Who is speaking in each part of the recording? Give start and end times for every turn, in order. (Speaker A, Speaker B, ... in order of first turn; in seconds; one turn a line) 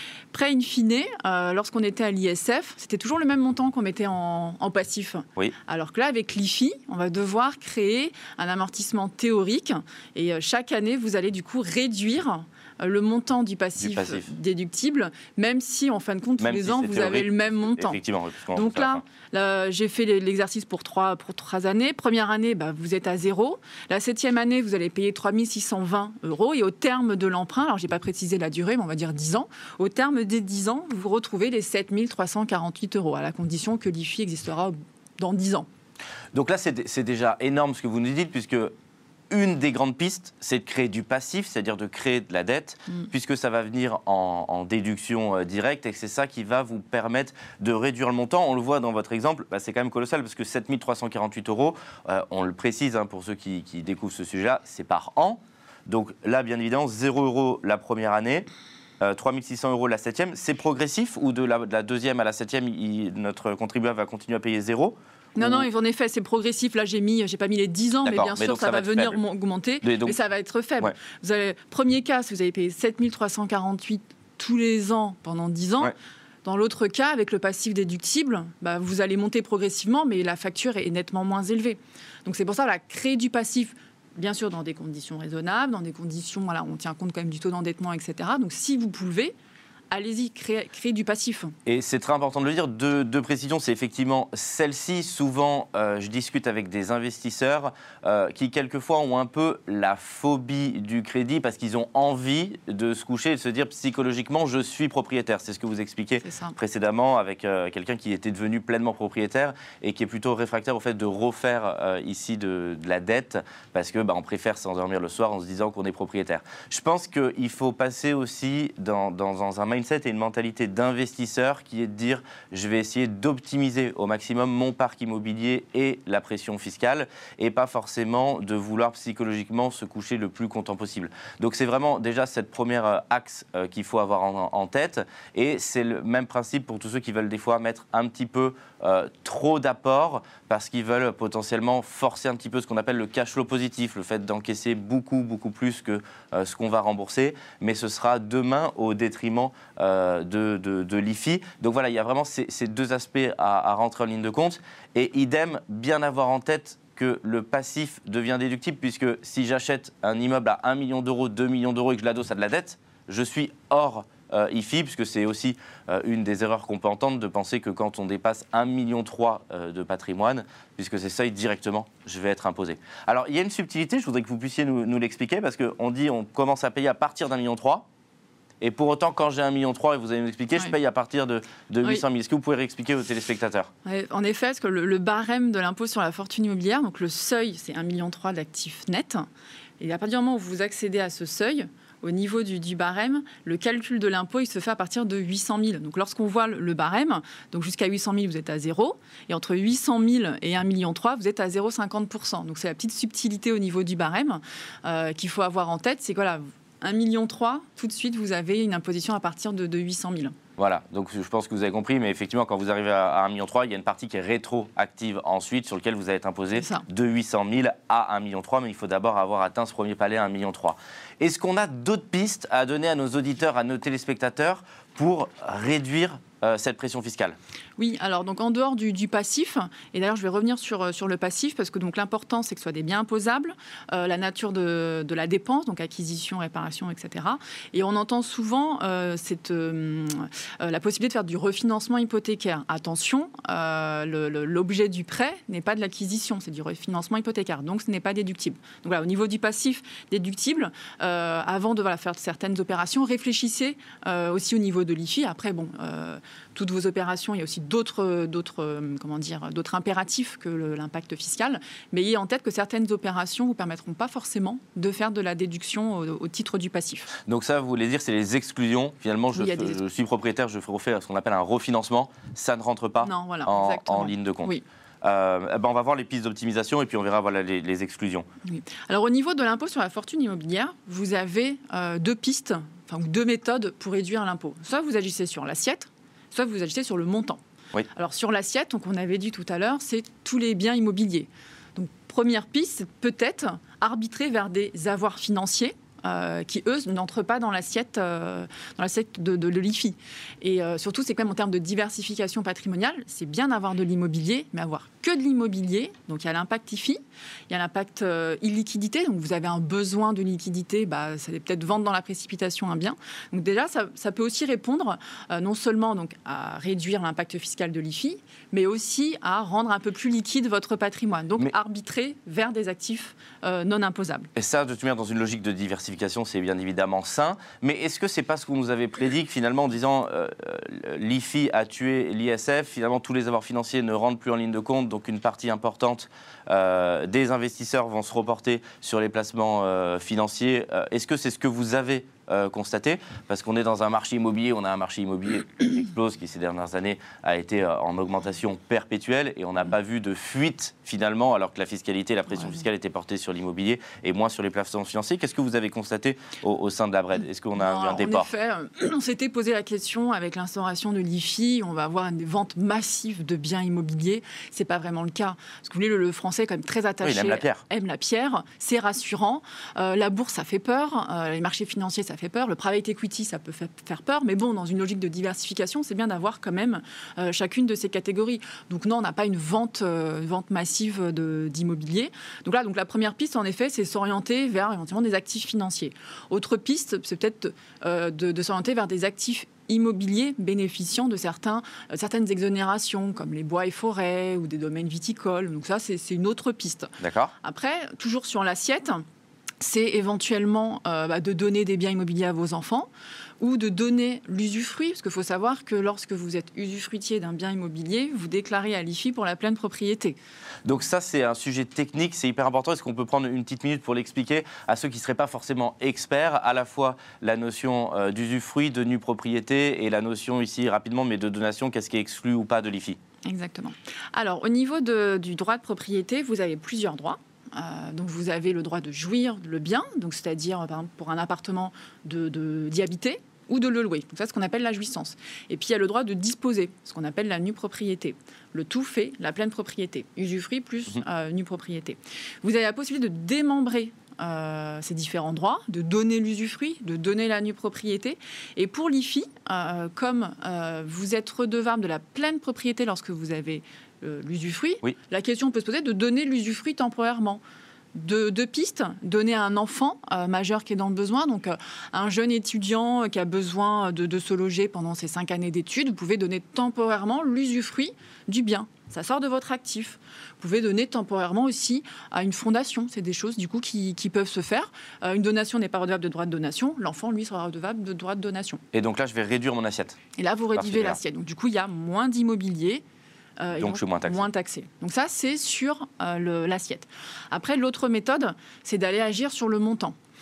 Speaker A: 0.3-18.0
Speaker B: 13.8-14.3
Speaker B: 16.4-19.0
Speaker A: 18.5-35.7
Speaker B: 36.3-38.7
Speaker B: 39.3-58.5
Speaker B: 59.0-65.7
Speaker A: 65.3-89.3
Speaker B: 68.0-69.2
Speaker B: 69.8-70.2
Speaker A: 89.9-91.5
Speaker B: 91.7-177.8
Speaker A: 106.2-106.5
Speaker B: 178.6-183.7
Speaker A: 183.8-189.2
Speaker A: 189.8-210.3
Speaker B: 210.6-227.3
Speaker A: 216.5-216.8
Speaker A: 227.8-267.1
Speaker B: 267.2-274.5
Speaker A: 269.3-269.8
Speaker A: 273.0-274.6
Speaker B: 275.0-278.2
Speaker A: 278.4-287.4
Speaker A: 287.9-324.3
Speaker B: 324.4-358.3
Speaker A: 357.6-399.0
Speaker B: 367.0-367.6
Speaker B: 397.0-397.3
Speaker A: 399.6-402.9
Speaker A: 403.4-410.2
Speaker B: 410.6-423.0
Speaker A: 423.2-457.4
Speaker A: 457.9-478.6
Speaker B: 478.7-480.0
Speaker A: 480.1-482.8
Speaker B: 480.6-481.0
Speaker A: 483.4-489.9
Speaker B: 483.6-484.3